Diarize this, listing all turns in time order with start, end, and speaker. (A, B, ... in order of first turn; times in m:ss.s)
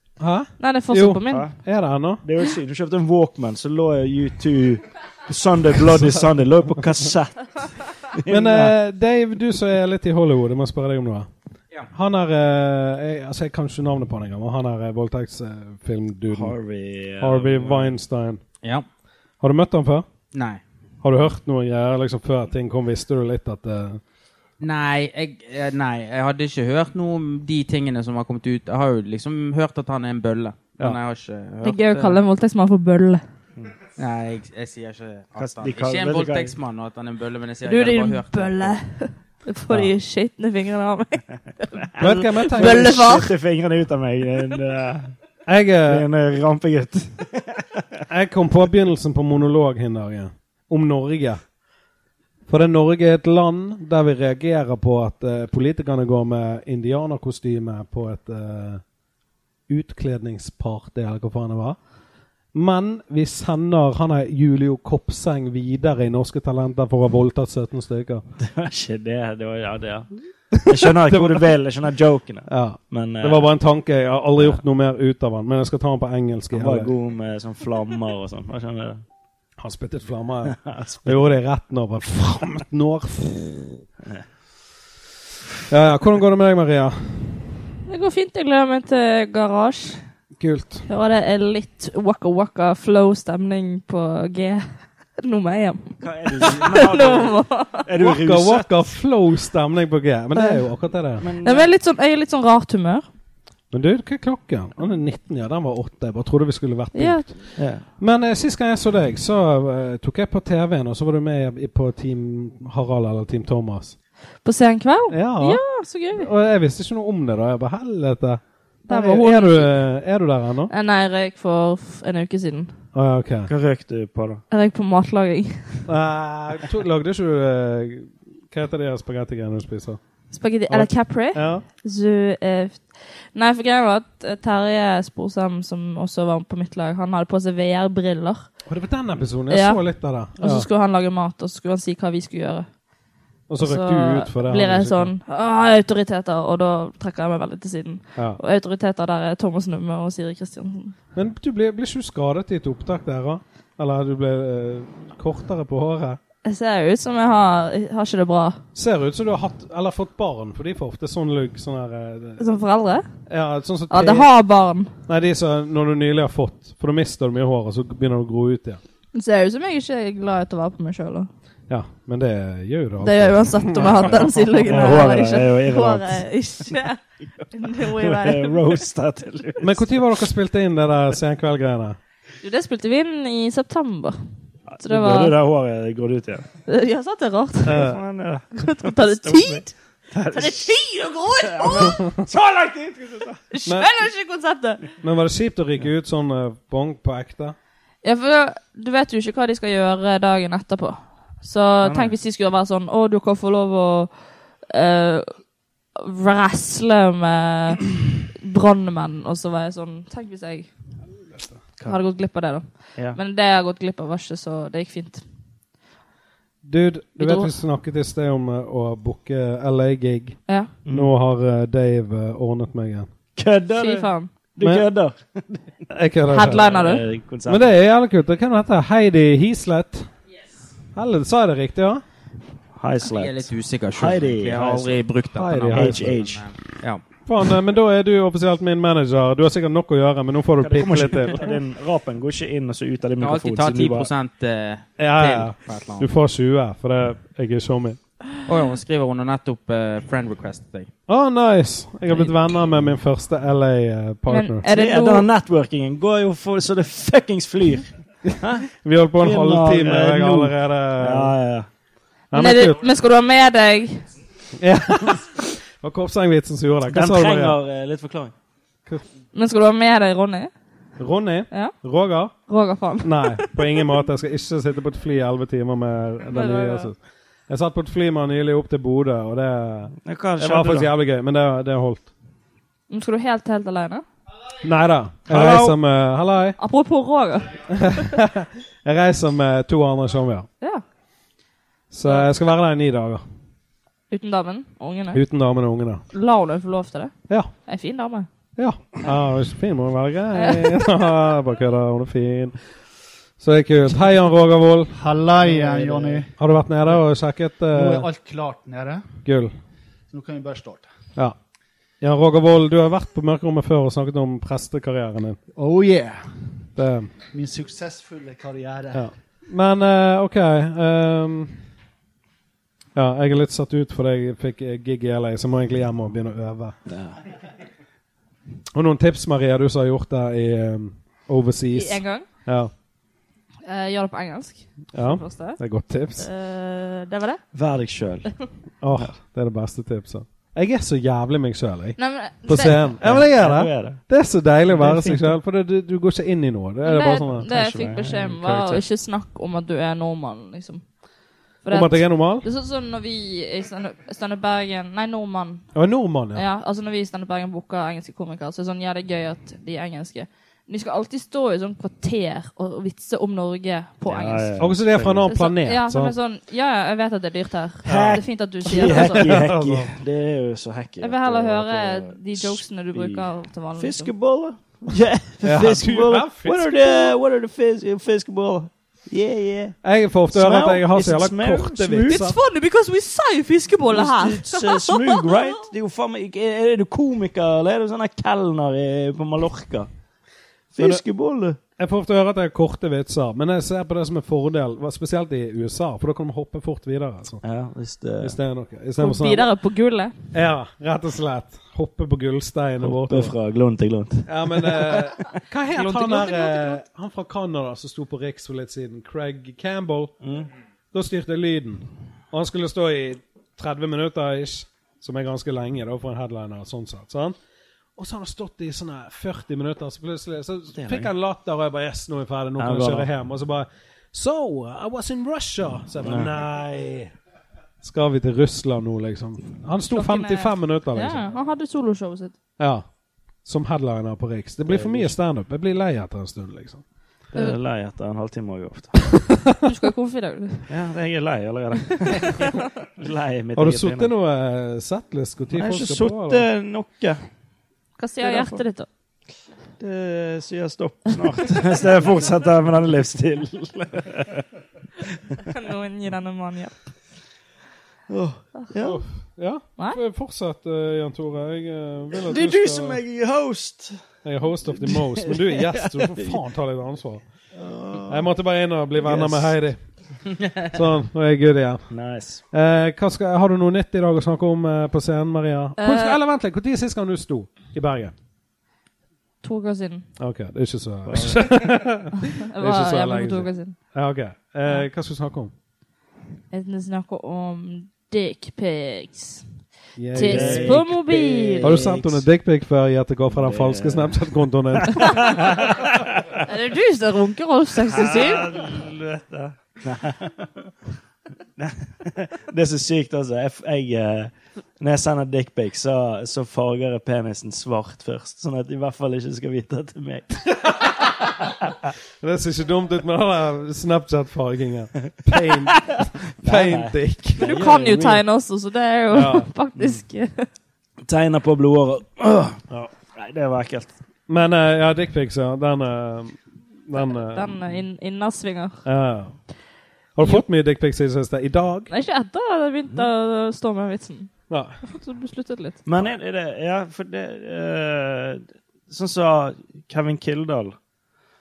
0:00.2-0:02.2 A
0:00.6-0:01.5 B
0:01.3-0:01.6 C
0:02.2-0:08.8 C
0:08.3-0:11.3 A
0:11.9-0:16.6 A
0:16.3-0:18.0 C
0:17.2-0:18.4 A
0:19.4-0:20.1 A
0:20.3-0:20.6 D
0:21.0-0:24.0 A
0:24.6-0:32.2 D
0:31.6-0:33.2 B
0:34.0-0:38.8 D
0:35.4-0:36.6 C
0:37.6-0:43.3 B
0:42.0-0:43.1 A
0:42.0-0:45.1 C
0:45.5-0:46.1 A
0:45.9-0:47.8 C
0:48.1-0:51.4 A
0:52.5-0:58.8 A
0:59.7-1:01.8 A
1:02.5-1:08.2 A
1:08.4-1:10.1 C
1:10.6-1:13.5 C
1:10.7-1:11.5 A
1:12.5-1:16.9 A
1:16.5-1:19.0 C
1:19.6-1:23.5 A
1:20.6-1:21.3 C
1:25.7-1:27.5 A
1:27.9-1:30.0 B
1:30.4-1:30.9 A
1:30.9-1:37.9 B
1:36.0-1:38.9 C
1:38.0-1:41.2 A
1:40.4-1:40.6 B
1:41.2-1:41.7 C
1:41.4-1:43.1 B
1:43.7-1:54.0 A
1:46.9-1:47.4 B
1:47.6-1:47.9 C
1:54.4-1:56.3 B
1:55.1-2:00.7 A
1:58.9-1:59.8 B
2:00.7-2:02.7 B
2:02.9-2:03.5 A
2:03.5-2:04.4 C
2:04.5-2:05.9 B
2:05.9-2:10.0 A
2:10.3-2:18.5 B
2:10.7-2:11.6 A
2:18.7-2:20.7 A
2:19.5-2:19.8 B
2:20.4-2:22.7 B
2:23.5-2:25.1 A
2:23.6-2:31.0 B
2:31.2-2:36.2 A
2:36.4-2:38.6 B
2:38.8-2:42.4 A
2:42.4-2:43.0 B
2:43.3-2:44.3 A
2:43.9-2:45.0 B
2:45.1-2:48.8 A
2:49.1-2:51.3 B
2:51.7-2:54.9 A
2:53.0-2:57.0 B
2:54.7-2:56.2 C
2:57.5-2:58.8 B
2:57.6-3:00.0 C
2:59.6-3:02.0 A
3:02.4-3:05.4 B
3:04.7-3:06.5 C
3:06.7-3:07.8 B
3:07.6-3:08.0 A
3:07.7-3:10.7 C
3:08.5-3:09.7 B
3:10.3-3:12.0 B
3:11.4-3:13.4 C
3:13.5-3:14.9 B
3:13.6-3:14.1 A
3:15.0-3:17.6 A
3:18.0-3:25.4 B
3:21.8-3:22.1 C
3:26.0-3:30.7 B
3:31.9-3:35.2 B
3:36.6-3:43.1 A
3:37.2-3:37.5 B
3:40.5-3:40.7 B
3:40.8-3:41.1 C
3:43.4-3:45.8 C
3:43.7-3:44.3 B
3:44.6-3:44.9 A
3:45.9-3:46.7 A
3:46.3-3:47.0 B
3:46.4-3:47.7 C
3:47.5-3:50.1 A
3:51.0-3:52.0 A
3:52.8-3:55.0 C
3:53.0-3:57.0 D
3:55.4-3:56.1 A
3:55.7-3:56.4 C
3:57.3-4:01.4 A
4:00.6-4:04.1 C
4:03.2-4:06.1 D
4:05.0-4:08.0 A
4:08.4-4:10.9 D
4:11.1-4:14.7 A
4:14.3-4:15.3 B
4:14.7-4:18.7 C
4:18.8-4:21.4 A
4:19.2-4:21.7 C
4:22.3-4:22.8 A
4:22.3-4:24.1 B
4:24.6-4:27.6 A
4:26.9-4:28.3 C
4:29.3-4:30.5 B
4:31.0-4:32.3 A
4:32.5-4:33.6 B
4:33.0-4:37.0 A
4:36.3-4:36.9 B
4:37.5-4:42.1 A
4:40.0-4:40.9 C
4:42.9-4:44.0 B
4:44.6-4:46.6 A
4:45.3-4:45.8 C
4:46.6-4:47.7 B
4:47.7-4:50.5 A
4:51.9-4:53.2 A
4:54.1-4:55.2 B
4:55.1-4:56.0 A
4:56.1-4:58.3 B
4:58.6-5:02.6 A
5:00.4-5:00.9 B
5:03.4-5:05.0 A
5:05.0-5:06.3 E
5:05.6-5:05.8 C
5:06.4-5:08.1 A
5:07.7-5:09.0 E
5:09.2-5:09.5 A
5:10.1-5:10.9 E
5:12.0-5:15.4 A
5:15.6-5:16.3 E
5:16.8-5:17.1 A
5:17.3-5:19.1 E
5:18.9-5:21.6 A
5:23.0-5:26.8 A
5:26.9-5:27.2 C
5:28.7-5:32.7 A
5:31.7-5:32.3 B
5:33.7-5:35.6 B
5:34.9-5:36.3 A
5:36.2-5:37.4 B
5:37.5-5:38.4 C
5:38.8-5:47.5 A
5:42.0-5:42.9 B
5:43.0-5:44.0 C
5:44.7-5:45.3 C
5:46.8-5:50.8 B
5:47.5-5:48.8 C
5:51.6-5:55.7 B
5:51.7-5:52.5 A
5:55.7-5:56.4 A
5:56.3-6:04.6 B
6:04.1-6:05.3 C
6:04.6-6:06.2 A
6:05.3-6:09.4 B
6:07.9-6:09.9 A
6:07.9-6:19.8 C
6:11.0-6:14.1 B
6:15.4-6:16.7 A
6:16.8-6:17.1 B
6:19.8-6:22.4 A
6:20.3-6:22.2 C
6:22.1-6:25.7 B
6:23.9-6:29.9 C
6:30.7-6:31.6 C
6:30.8-6:31.0 A
6:31.8-6:37.4 A
6:37.4-6:38.4 C
6:38.2-6:39.5 A
6:39.0-6:40.2 B
6:40.3-6:43.4 A
6:42.8-6:45.4 C
6:44.3-6:50.2 A
6:45.8-6:46.8 B
6:50.2-6:50.5 C
6:50.9-6:57.4 A
6:58.0-7:07.1 A
7:00.8-7:01.1 C
7:02.6-7:03.1 C
7:06.0-7:06.3 C
7:07.8-7:11.2 A
7:09.9-7:12.4 B
7:12.6-7:12.9 A
7:13.4-7:16.8 A
7:14.7-7:15.2 C
7:17.3-7:19.1 C
7:19.3-7:19.5 A
7:19.6-7:20.7 B
7:20.7-7:24.1 C
7:23.6-7:26.4 A
7:25.5-7:27.2 C
7:28.0-7:28.9 B
7:28.2-7:28.6 C
7:29.8-7:34.4 C
7:35.5-7:36.8 B
7:38.1-7:39.0 C
7:38.8-7:43.0 A
7:42.3-7:44.0 C
7:44.2-7:47.2 A
7:44.7-7:46.4 C
7:47.6-7:48.3 C
7:48.1-7:49.8 A
7:49.0-7:49.6 C
7:50.7-7:51.9 A
7:51.9-7:52.4 C
7:52.5-7:58.1 A
7:55.8-7:56.2 B
7:59.4-8:00.1 B
8:00.2-8:05.5 A
8:01.1-8:01.8 C
8:02.4-8:03.8 B
8:06.5-8:09.5 B
8:10.0-8:10.8 A
8:10.2-8:11.8 B
8:10.2-8:12.3 C
8:11.6-8:15.5 A
8:13.3-8:16.2 C
8:16.5-8:18.6 B
8:17.8-8:20.5 C
8:21.6-8:30.7 C
8:32.2-8:37.7 A
8:35.7-8:38.2 C
8:37.4-8:40.5 B
8:39.1-8:39.5 A
8:41.0-8:42.6 C
8:43.1-8:44.0 C
8:44.3-8:47.6 A
8:47.0-8:48.8 B
8:48.8-8:49.4 A
8:50.2-8:51.9 A
8:51.9-8:54.3 B
8:54.5-8:54.8 A
8:54.8-8:55.8 B
8:55.9-9:00.8 C